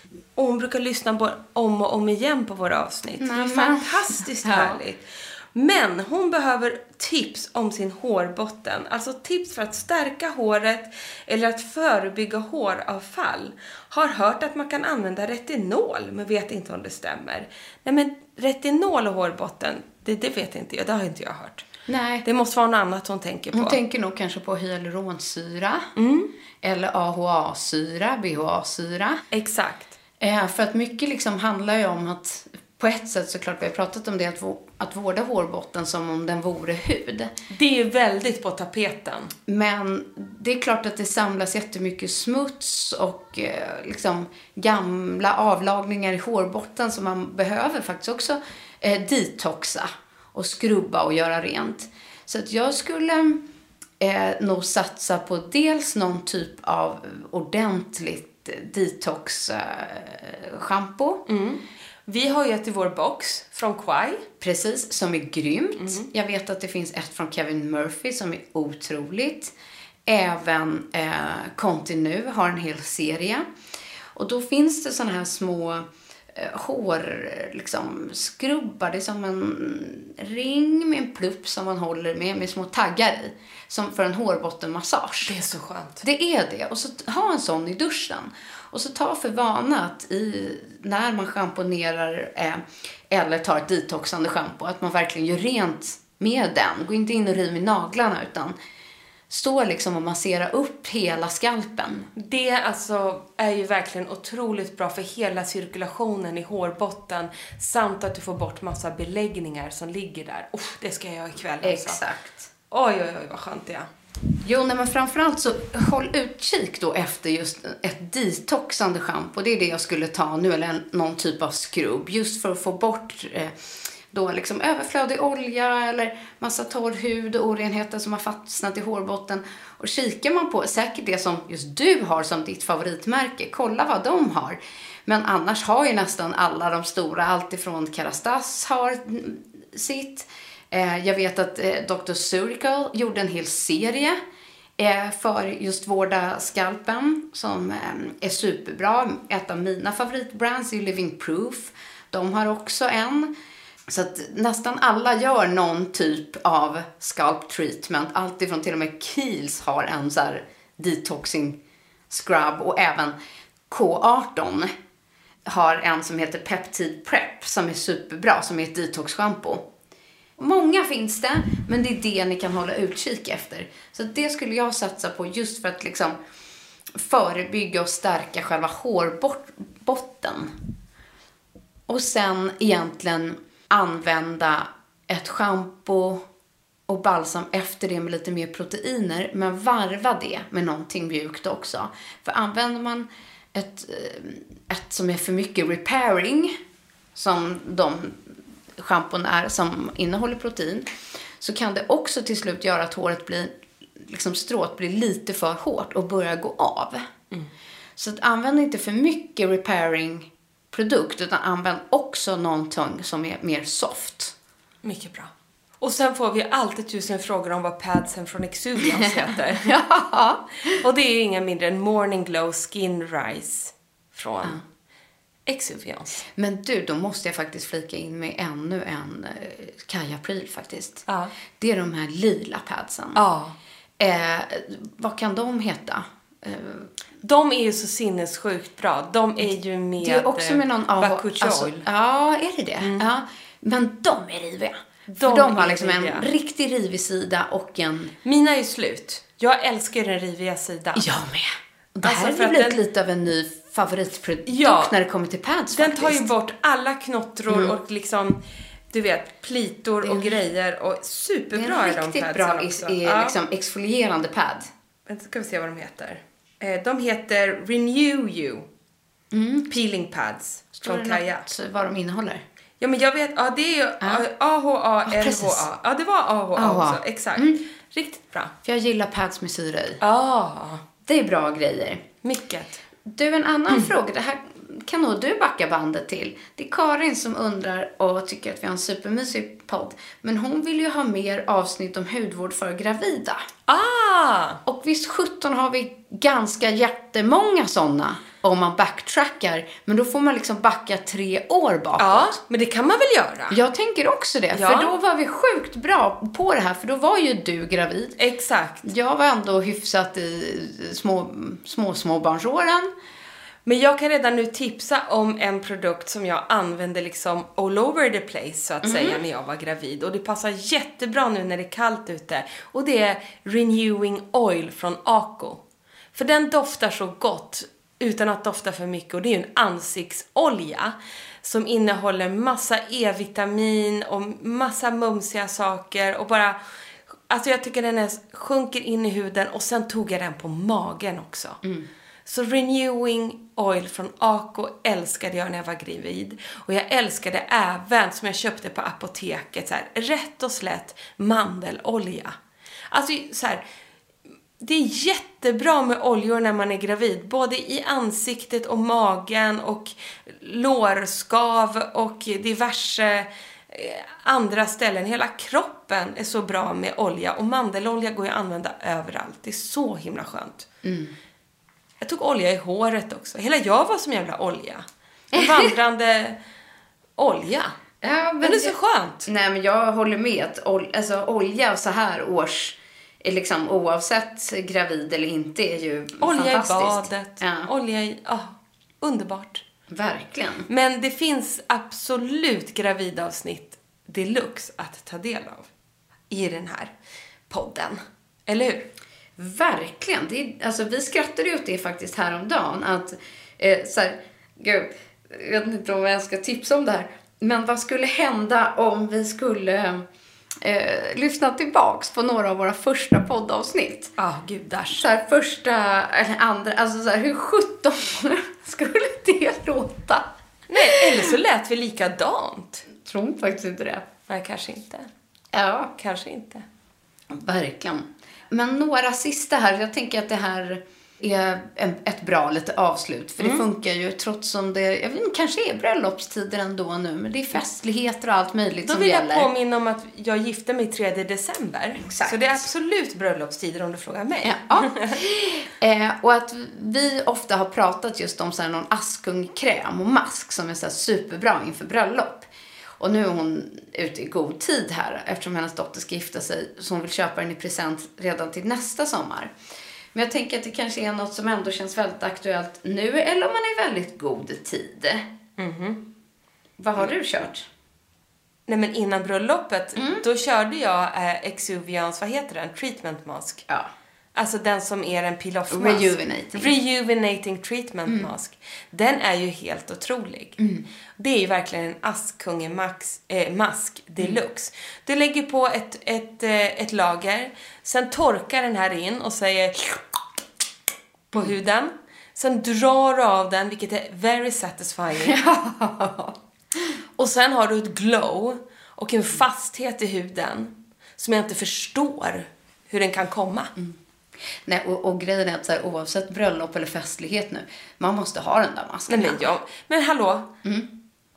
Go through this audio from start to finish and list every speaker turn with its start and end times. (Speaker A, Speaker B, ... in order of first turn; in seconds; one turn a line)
Speaker A: 0.4-21.7
Speaker B: 3.2-4.8
Speaker B: 21.9-22.2
Speaker A: 22.2-23.8
Speaker B: 23.5-25.9
Speaker A: 26.0-26.3
Speaker B: 26.6-29.2
Speaker A: 29.3-29.9
Speaker B: 30.2-37.3
Speaker A: 37.5-39.3
Speaker B: 39.5-53.4
Speaker B: 54.0-61.2
Speaker A: 61.3-64.2
Speaker B: 64.4-69.5
Speaker A: 65.8-66.1
Speaker B: 70.1-73.5
Speaker B: 74.2-85.3
Speaker A: 85.2-86.0
Speaker B: 86.0-98.5
Speaker B: 99.3-102.1
Speaker A: 102.2-112.0
Speaker B: 111.6-112.5
Speaker A: 112.7-113.9
Speaker B: 114.4-123.5
Speaker B: 124.1-144.2
Speaker B: 144.8-153.3
Speaker B: 153.9-161.6
Speaker B: 162.1-163.2
Speaker B: 163.7-164.7
Speaker B: 165.5-169.6
Speaker B: 170.4-176.2
Speaker B: 177.0-180.5
Speaker B: 181.9-186.2
Speaker B: 186.9-196.6
Speaker B: 197.2-200.9
Speaker B: 201.4-207.0
Speaker B: 208.0-214.3
Speaker A: 214.8-219.7
Speaker B: 218.9-220.8
Speaker A: 220.8-224.6
Speaker A: 225.5-226.2
Speaker B: 226.4-231.0
Speaker A: 231.1-231.3
Speaker B: 231.6-233.2
Speaker A: 233.2-233.6
Speaker B: 234.0-236.9
Speaker A: 237.2-241.8
Speaker B: 240.0-248.1
Speaker A: 242.8-243.1
Speaker A: 245.1-246.3
Speaker A: 248.2-251.1
Speaker B: 250.9-256.3
Speaker A: 252.0-252.8
Speaker A: 254.5-254.9
Speaker A: 255.7-258.4
Speaker B: 257.5-257.7
Speaker A: 258.9-263.4
Speaker B: 260.0-260.4
Speaker B: 261.6-264.7
Speaker A: 265.1-268.7
Speaker B: 269.3-269.7
Speaker A: 269.7-271.5
Speaker B: 270.8-272.4
Speaker A: 272.8-278.5
Speaker B: 275.1-275.7
Speaker B: 276.6-277.6
Speaker B: 278.6-280.0
Speaker A: 280.0-280.8
Speaker B: 281.1-282.0
Speaker A: 282.2-282.8
Speaker B: 283.1-293.4
Speaker A: 293.7-294.6
Speaker B: 294.7-302.4
Speaker A: 302.0-303.6
Speaker B: 303.5-308.2
Speaker A: 304.5-304.9
Speaker A: 308.2-308.9
Speaker B: 308.8-312.9
Speaker A: 313.6-325.6
Speaker B: 318.8-319.2
Speaker A: 326.1-336.6
Speaker A: 337.3-341.6
Speaker A: 342.3-352.4
Speaker A: 352.9-353.6
Speaker A: 354.6-370.7
Speaker B: 370.8-371.1
Speaker A: 372.0-376.4
Speaker B: 375.3-375.7
Speaker A: 377.2-377.8
Speaker B: 378.0-387.7
Speaker A: 378.4-379.3
Speaker A: 386.2-389.6
Speaker B: 389.9-390.7
Speaker A: 390.7-395.7
Speaker A: 396.3-396.9
Speaker A: 397.5-398.9
Speaker B: 399.4-410.1
Speaker B: 410.6-414.1
Speaker A: 414.2-415.0
Speaker B: 414.9-421.3
Speaker A: 420.7-422.9
Speaker B: 423.0-424.1
Speaker A: 424.3-425.1
Speaker B: 425.5-425.9
Speaker A: 426.0-426.6
Speaker B: 427.3-439.5
Speaker A: 433.4-433.6
Speaker A: 438.9-445.1
Speaker B: 442.1-442.6
Speaker B: 444.4-452.5
Speaker B: 453.0-459.5
Speaker B: 460.1-465.2
Speaker A: 465.6-466.0
Speaker B: 466.8-467.7
Speaker A: 468.7-473.6
Speaker B: 470.0-470.2
Speaker A: 474.4-480.6
Speaker B: 475.7-476.7
Speaker B: 480.6-480.9
Speaker A: 481.2-490.0
Speaker A: 491.3-495.4
Speaker B: 495.2-496.4
Speaker A: 497.2-503.7
Speaker B: 504.7-509.6
Speaker A: 509.1-510.5